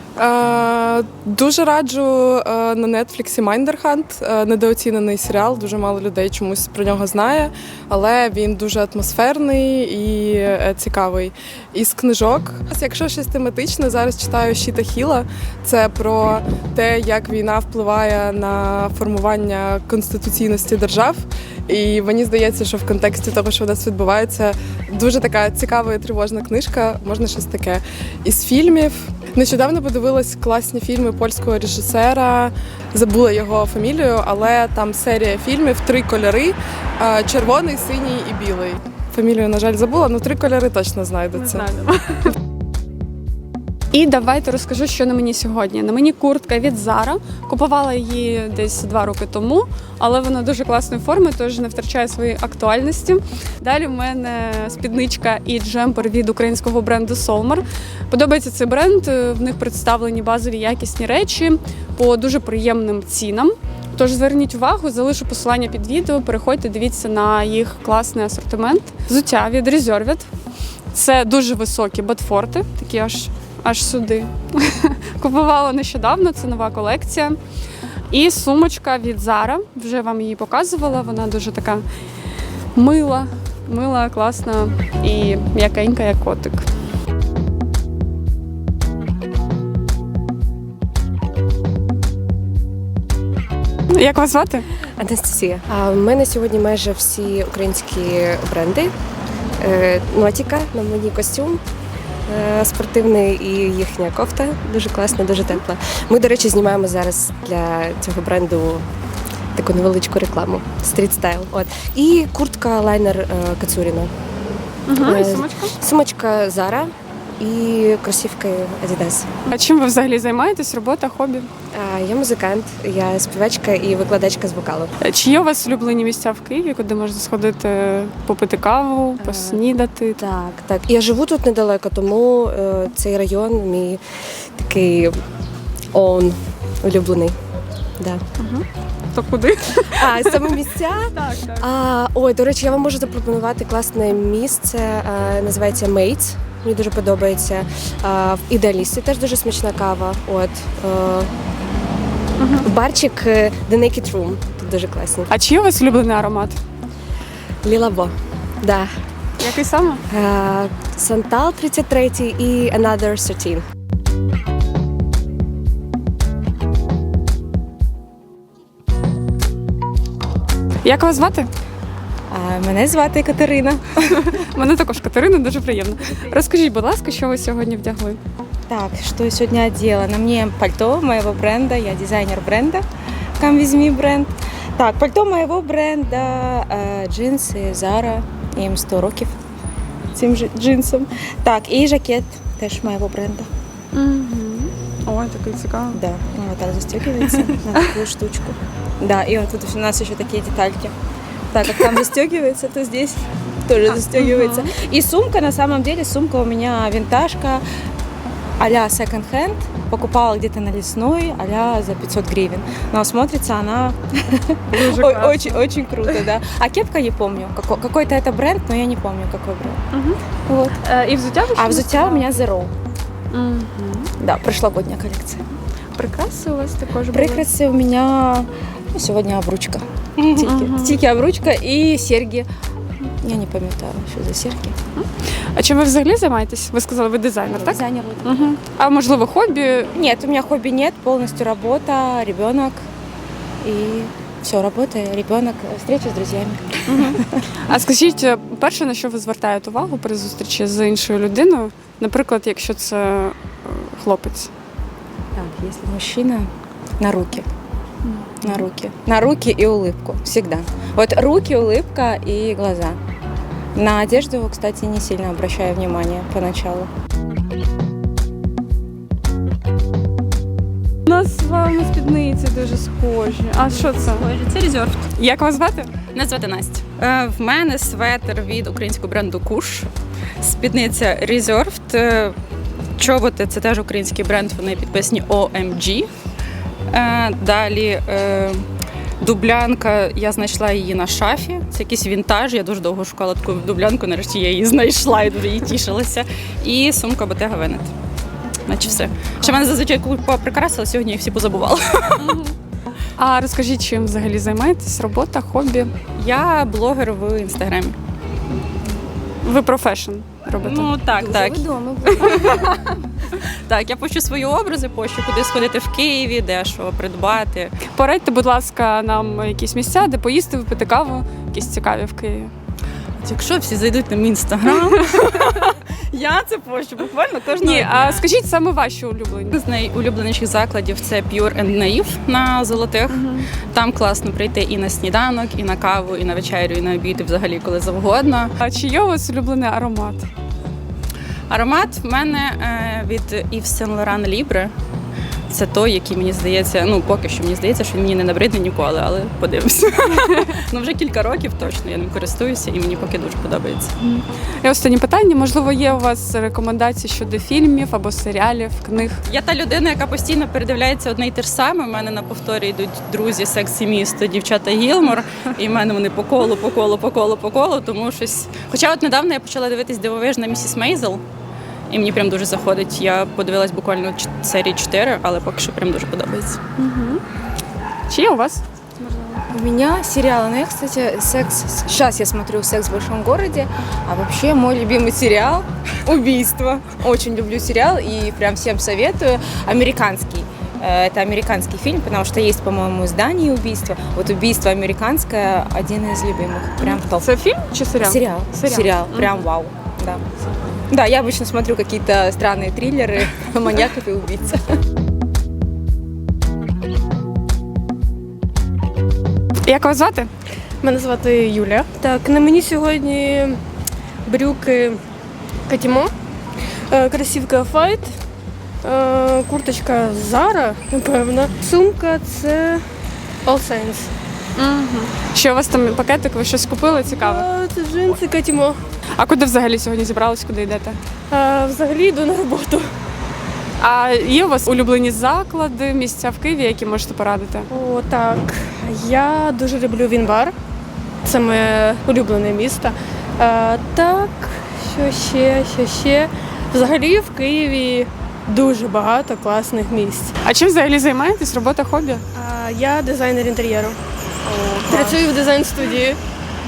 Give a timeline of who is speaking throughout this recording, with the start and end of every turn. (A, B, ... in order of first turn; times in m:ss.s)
0:00.2-0:41.6 A
0:41.3-0:42.3 B
0:43.9-1:10.3 B
1:10.9-1:17.4 B
1:18.1-1:21.8 B
1:22.7-1:26.7 B
1:33.9-1:34.6 B
1:35.0-1:38.9 C
1:39.6-1:41.6 C
1:42.3-1:48.8 C
1:49.5-1:54.1 C
1:54.9-1:55.7 B
1:54.9-1:59.3 C
1:59.4-2:01.5 B
2:01.7-2:04.9 C
2:05.0-2:10.2 B
2:09.2-2:09.6 C
2:10.2-2:14.0 C
2:14.6-2:15.2 C
2:15.9-2:17.4 C
2:18.4-2:21.6 B
2:20.0-2:31.3 C
2:32.4-2:32.7 B
2:32.6-2:35.3 C
2:35.3-2:36.6 B
2:37.6-2:38.9 C
2:39.4-2:40.0 B
2:40.1-2:43.6 C
2:50.8-2:51.5 B
2:52.3-2:53.9 D
2:54.1-2:58.2 B
2:58.7-3:02.8 D
3:03.4-3:09.3 D
3:10.1-3:13.5 D
3:13.9-3:16.0 B
3:15.9-3:20.9 D
3:17.2-3:18.0 B
3:21.5-3:27.6 D
3:23.9-3:24.7 B
3:28.6-3:39.8 D
3:34.7-3:36.3 B
3:39.9-3:42.3 B
3:41.5-3:42.7 D
3:43.3-3:44.1 B
3:44.2-3:45.4 D
3:45.9-3:47.5 B
3:47.1-3:52.5 D
3:50.4-3:51.0 B
3:53.2-3:54.7 D
3:54.9-3:59.9 B
3:57.5-3:58.3 D
3:59.9-4:02.8 D
4:03.6-4:07.2 D
4:06.9-4:14.5 B
4:15.3-4:17.4 D
4:18.1-4:18.7 B
4:18.4-4:23.0 D
4:23.7-4:26.9 D
4:31.1-4:34.2 B
4:33.7-4:35.1 E
4:35.2-4:36.0 B
4:36.1-4:39.9 E
4:40.4-4:42.3 E
4:43.0-4:46.1 E
4:46.9-4:48.6 E
4:49.2-4:57.9 E
4:58.7-5:02.4 E
4:59.4-4:59.7 B
5:03.2-5:05.9 B
5:06.2-5:08.0 E
5:09.4-5:10.9 B
5:10.6-5:12.6 D
5:10.8-5:11.6 E
5:12.2-5:12.7 B
5:13.7-5:17.7 E
5:17.9-5:22.5 B
5:23.2-5:28.2 E
5:27.6-5:29.6 B
5:29.5-5:38.5 E
5:33.1-5:33.5 B
5:38.6-5:40.3 B
5:41.5-5:44.7 E
5:45.5-5:53.9 E
5:54.0-5:59.2 B
5:59.2-6:11.2 E
6:11.9-6:16.6 E
6:16.8-6:17.2 B
6:18.1-6:19.4 B
6:19.5-6:37.3 D
6:36.8-6:39.5 B
6:38.0-6:40.2 D
6:40.9-6:44.6 D
6:49.6-6:50.3 B
6:50.8-6:53.6 F
6:54.2-6:55.0 F
6:55.7-6:56.1 F
6:56.9-6:58.1 F
6:58.8-7:02.8 F
7:03.4-7:04.1 F
7:04.6-7:07.5 B
7:07.0-7:08.8 F
7:09.2-7:11.0 B
7:11.3-7:12.9 F
7:13.8-7:17.7 B
7:17.7-7:20.5 F
7:21.2-7:30.3 F
7:30.4-7:32.2 B
7:32.3-7:34.0 F
7:34.4-7:35.3 B
7:34.8-7:36.2 F